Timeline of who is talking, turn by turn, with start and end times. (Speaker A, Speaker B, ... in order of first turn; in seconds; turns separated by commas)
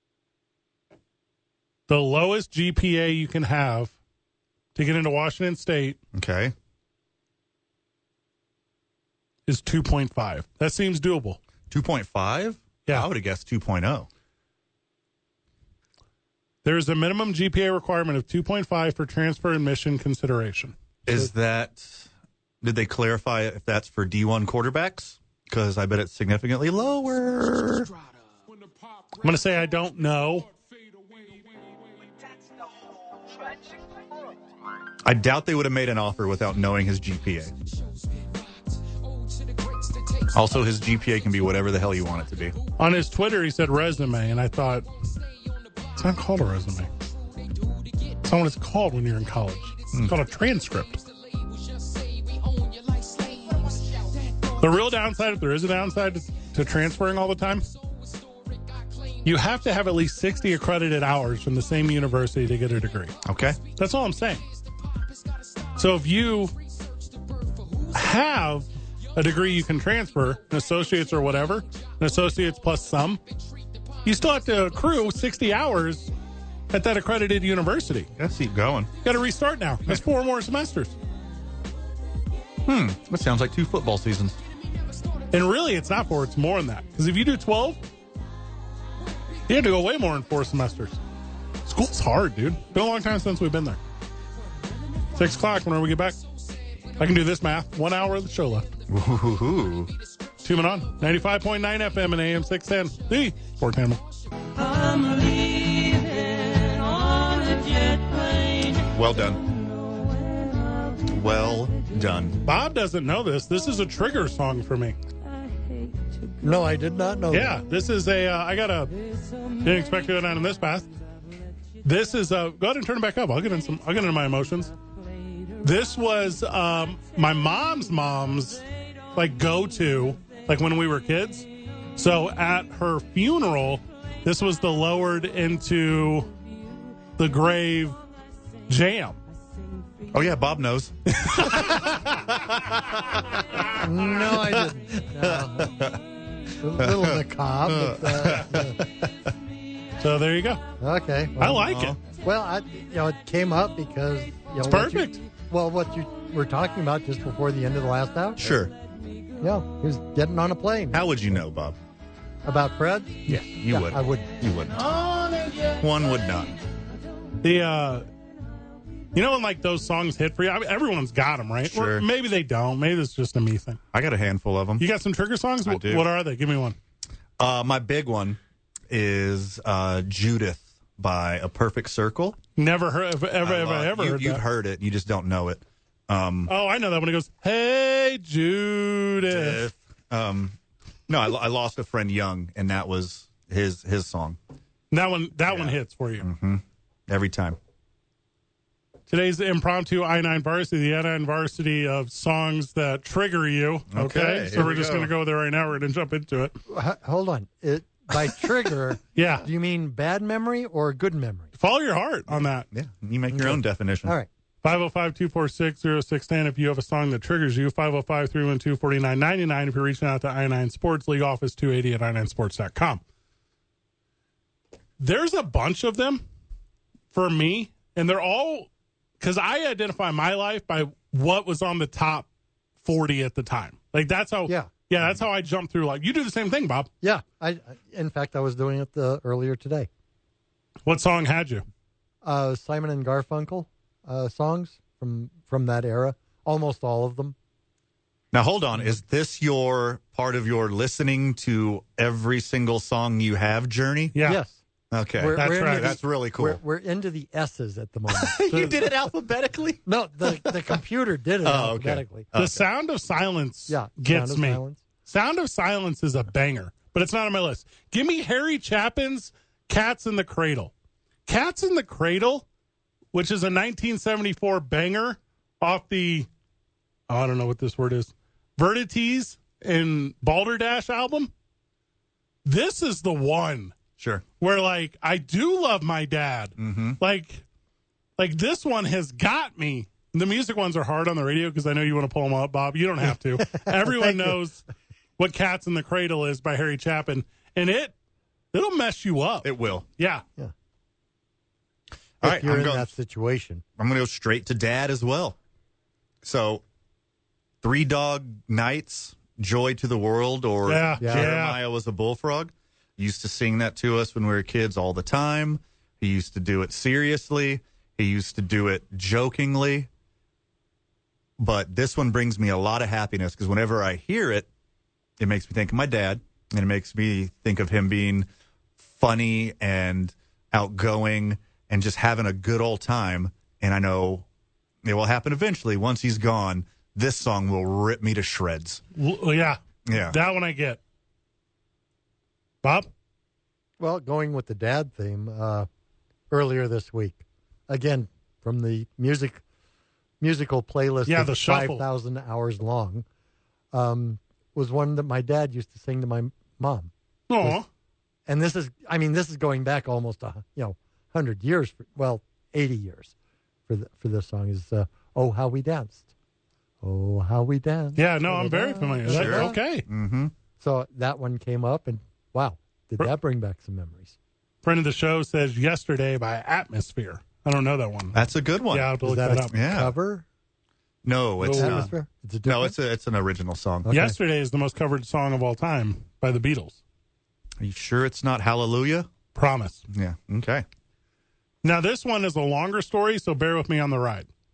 Speaker A: 1.9-3.9, Speaker A: 4.7-6.0, Speaker B: 6.1-6.5, Speaker A: 9.5-11.4, Speaker B: 11.7-14.1, Speaker A: 16.6-20.7, Speaker B: 21.1-22.1, Speaker B: 22.6-27.9, Speaker A: 29.2-30.5, Speaker B: 35.0-37.5, Speaker C: 39.6-40.2, Speaker B: 40.3-42.5, Speaker A: 42.8-44.9, Speaker A: 45.9-46.9, Speaker A: 48.2-51.0, Speaker B: 49.9-50.2, Speaker C: 51.4-54.0, Speaker A: 54.6-57.7, Speaker A: 59.2-63.1, Speaker B: 63.2-63.6, Speaker A: 63.7-64.4, Speaker A: 65.7-66.5, Speaker C: 67.2-67.9, Speaker A: 67.9-73.2, Speaker A: 74.0-76.1, Speaker A: 76.7-78.1, Speaker B: 78.1-78.9, Speaker A: 79.0-80.9, Speaker B: 82.6-84.4, Speaker A: 85.3-87.8, Speaker A: 89.5-91.0, Speaker A: 91.7-93.8, Speaker A: 95.1-96.2, Speaker A: 97.0-98.7, Speaker B: 98.9-99.9, Speaker A: 100.4-104.0, Speaker C: 106.7-107.9, Speaker B: 108.9-109.5, Speaker B: 111.0-112.4, Speaker A: 112.4-115.0, Speaker D: 116.4-117.6, Speaker A: 117.3-118.9, Speaker A: 119.6-120.9, Speaker A: 121.8-124.7, Speaker A: 125.6-128.6, Speaker A: 129.1-136.3, Speaker A: 137.2-138.0, Speaker A: 138.7-139.2, Speaker B: 140.1-146.0, Speaker A: 141.1-142.2, Speaker D: 143.8-145.7, Speaker D: 146.6-148.8, Speaker B: 146.8-149.3, Speaker A: 150.0-150.6, Speaker D: 150.8-158.6, Speaker A: 151.4-152.0, Speaker B: 151.6-152.0, Speaker A: 154.6-155.2, Speaker B: 158.4-158.7, Speaker D: 159.4-161.1, Speaker B: 160.9-161.8, Speaker D: 162.4-164.3, Speaker B: 163.3-164.9, Speaker A: 165.0-165.5, Speaker B: 165.7-166.5, Speaker A: 167.4-168.1, Speaker A: 169.1-173.8, Speaker B: 171.6-172.1, Speaker B: 173.9-174.8, Speaker A: 174.8-176.8, Speaker B: 175.6-176.1, Speaker B: 177.4-182.4, Speaker A: 182.6-184.4, Speaker B: 183.4-186.5, Speaker A: 186.5-189.6, Speaker B: 189.2-190.6, Speaker B: 191.1-194.4, Speaker A: 194.9-196.3, Speaker B: 195.5-197.6, Speaker A: 199.1-206.5, Speaker B: 203.9-205.1, Speaker D: 206.7-211.5, Speaker A: 209.1-209.5, Speaker A: 211.6-212.7, Speaker B: 212.7-214.2, Speaker D: 213.3-214.3, Speaker A: 214.6-223.0, Speaker A: 225.0-226.2, Speaker A: 227.1-228.7, Speaker A: 229.2-232.3, Speaker A: 232.8-236.9, Speaker D: 237.0-239.9, Speaker A: 240.8-241.6, Speaker D: 242.2-247.3, Speaker B: 248.3-254.1, Speaker A: 254.1-254.4, Speaker D: 254.2-254.6, Speaker B: 254.9-256.6, Speaker D: 255.2-258.9, Speaker A: 255.3-255.9, Speaker B: 258.1-260.8, Speaker D: 259.9-262.3, Speaker B: 261.4-262.6, Speaker A: 262.4-270.7, Speaker D: 263.7-264.8, Speaker A: 271.2-272.4, Speaker A: 273.1-276.3, Speaker A: 277.1-281.3, Speaker A: 282.4-283.7, Speaker B: 284.0-284.2, Speaker A: 284.4-287.4, Speaker B: 286.6-287.0, Speaker A: 288.2-294.6, Speaker D: 293.5-294.4, Speaker A: 295.2-297.9, Speaker A: 298.5-300.2, Speaker B: 299.4-299.8, Speaker B: 302.2-302.9, Speaker D: 302.2-303.6, Speaker B: 303.8-305.4, Speaker B: 306.2-306.6, Speaker B: 307.6-319.9, Speaker A: 310.6-311.6, Speaker D: 311.0-311.3, Speaker B: 321.4-324.5, Speaker B: 325.2-328.3, Speaker B: 328.8-334.2, Speaker B: 334.8-338.8, Speaker A: 338.9-340.8, Speaker B: 339.9-340.2, Speaker A: 342.6-342.9, Speaker D: 343.8-345.7, Speaker D: 346.3-349.4, Speaker D: 350.2-353.0, Speaker A: 351.1-351.9, Speaker D: 353.7-356.9, Speaker A: 357.3-357.7, Speaker D: 358.3-363.1, Speaker D: 363.7-366.0, Speaker D: 366.8-369.6, Speaker A: 367.9-369.9, Speaker B: 369.1-370.3, Speaker D: 370.6-374.1, Speaker A: 374.6-378.2, Speaker B: 378.1-379.0, Speaker A: 378.7-379.5, Speaker D: 379.0-380.2, Speaker B: 379.5-379.9, Speaker B: 381.0-381.9, Speaker A: 381.4-381.9, Speaker D: 381.5-382.7, Speaker B: 382.4-383.9, Speaker D: 383.9-384.1, Speaker A: 383.9-386.8, Speaker B: 387.6-389.1, Speaker A: 389.3-389.8, Speaker B: 389.9-390.6, Speaker A: 391.6-394.3